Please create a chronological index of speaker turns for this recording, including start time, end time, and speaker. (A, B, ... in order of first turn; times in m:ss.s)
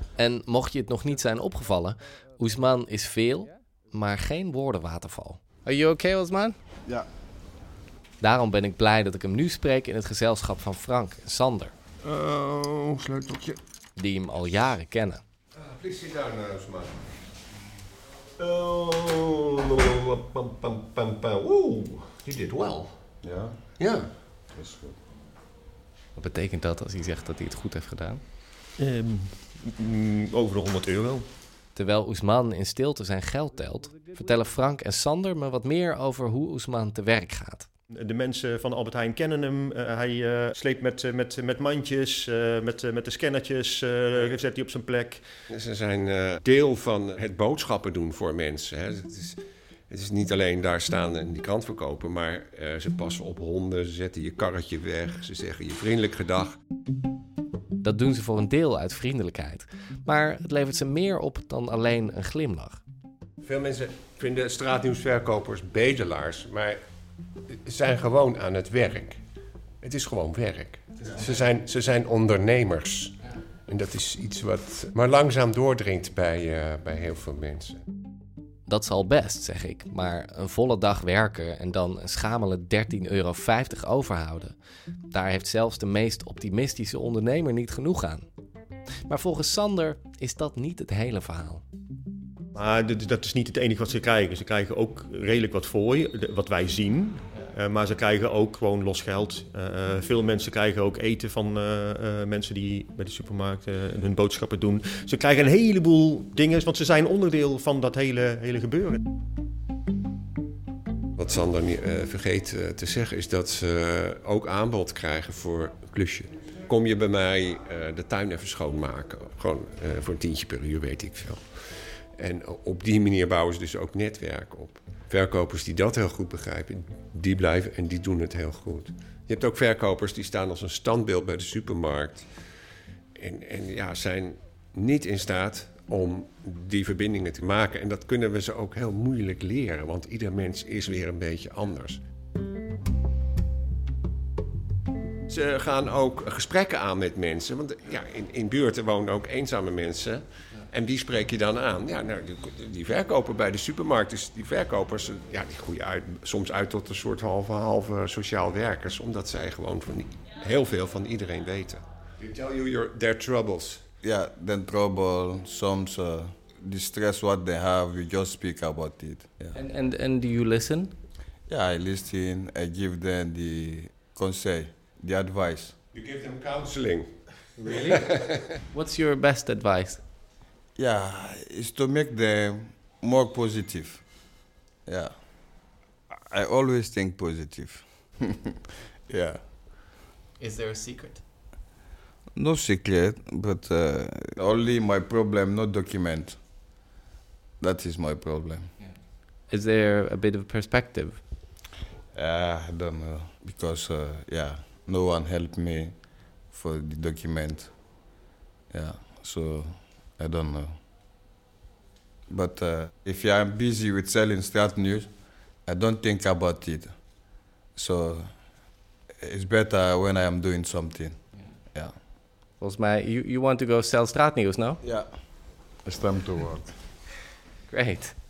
0:00.2-0:06.6 A
0:08.2-0:11.7 A
0:12.0-0:13.6 B
0:14.0-0:15.2 A
0:15.6-0:17.0 B
0:18.4-0:23.0 B
0:23.2-0:23.6 C
0:23.8-0:24.9 B
0:26.2-0:28.2 A
0:28.8-0:31.2 D
0:31.7-0:37.7 A
0:37.9-0:45.2 D
0:45.5-0:56.6 B
0:57.8-1:02.8 A
1:03.4-1:06.8 B
1:07.5-1:09.2 B
1:09.8-1:17.8 B
1:18.7-1:24.6 A
1:25.1-1:28.2 A
1:29.0-1:31.6 A
1:32.5-1:49.0 D
1:51.2-2:12.4 B
2:13.1-2:22.0 B
2:25.3-2:43.8 B
2:44.0-2:49.6 C
2:49.5-2:50.9 A
2:51.5-2:55.8 C
2:55.9-2:57.2 B
2:57.6-2:58.0 A
2:57.7-2:58.4 B
2:58.7-3:00.0 A
3:00.8-3:04.1 C
3:04.8-3:05.1 C
3:06.1-3:08.5 C
3:09.1-3:09.4 C
3:10.4-3:11.2 A
3:12.4-3:16.4 C
3:17.6-3:18.7 C
3:19.5-3:21.3 A
3:22.1-3:27.8 C
3:28.7-3:30.7 C
3:32.3-3:35.1 C
3:35.6-3:36.9 C
3:37.8-3:38.4 C
3:39.2-3:41.2 C
3:42.6-3:44.8 A
3:44.8-3:45.2 C
3:45.8-3:46.7 C
3:47.7-3:48.2 A